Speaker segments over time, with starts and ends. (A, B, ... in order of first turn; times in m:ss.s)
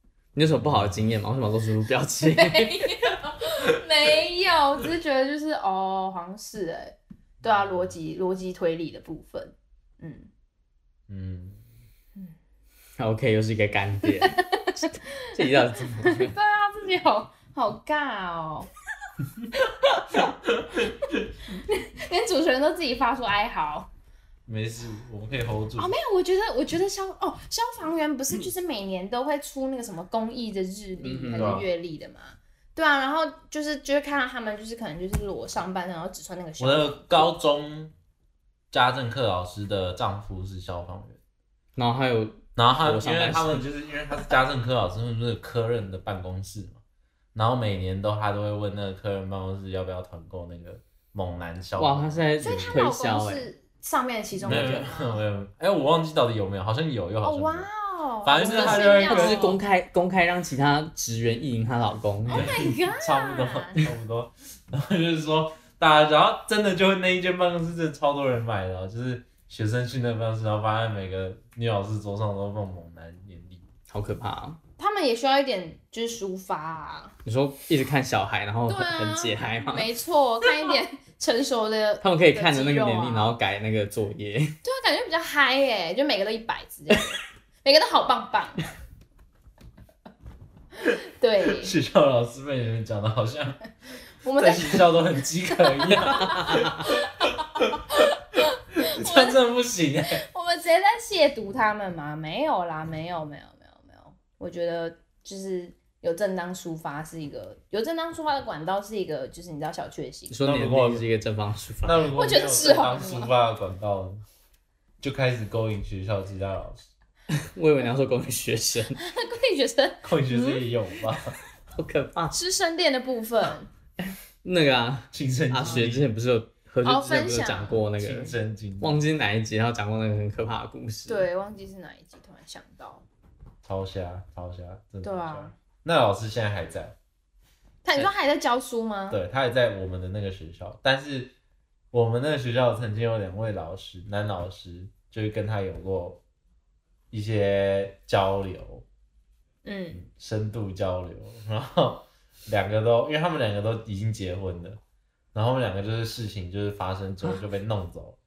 0:00.3-0:03.0 A
0:02.2-0:10.3 B
0:07.4-0:07.9 C
0:11.1-0:11.6 C
0:13.0-0:16.3 A
0:14.2-0:18.7 B
0:19.8-0:20.3 B
0:20.9-0:21.2 C
0:21.5-0:23.9 B
0:24.5-0:25.9 C
0:25.8-0:37.3 B
0:31.0-0:31.6 A
0:31.3-0:31.6 C
0:36.6-0:37.9 C
0:38.7-0:41.2 C
0:41.8-0:43.6 A
0:42.6-0:46.8 C
0:47.3-0:52.3 C
0:51.8-0:53.5 A
0:52.4-0:55.2 B
0:54.4-0:54.9 A
0:54.4-0:57.7 C
0:57.2-0:59.6 B
0:58.2-0:59.4 C
0:58.4-1:02.5 A
1:02.3-1:03.8 B
1:02.3-1:13.6 C
1:13.9-1:14.6 A
1:14.8-1:17.1 B
1:17.2-1:19.9 A
1:18.7-1:23.3 B
1:22.0-1:24.6 A
1:24.6-1:28.7 B
1:30.8-1:31.7 B
1:31.5-1:33.7 C
1:34.2-1:35.0 B
1:34.4-1:37.8 C
1:35.6-1:39.4 B
1:38.8-1:40.2 C
1:40.1-1:50.4 B
1:50.3-1:52.1 A
1:50.4-1:51.0 C
1:51.8-1:54.2 C
1:52.1-1:53.3 B
1:55.0-1:56.8 C
1:57.3-1:59.0 A
1:59.0-2:00.6 B
2:00.0-2:01.4 C
2:01.7-2:02.3 A
2:02.3-2:03.7 B
2:04.0-2:11.3 A
2:05.1-2:06.1 C
2:06.8-2:07.8 B
2:08.0-2:09.0 C
2:11.1-2:13.0 B
2:13.6-2:16.9 C
2:15.0-2:15.5 B
2:17.8-2:19.2 B
2:19.1-2:21.3 C
2:21.9-2:26.2 C
2:27.1-2:28.8 C
2:29.6-2:30.0 B
2:30.0-2:34.8 C
2:35.3-2:38.2 C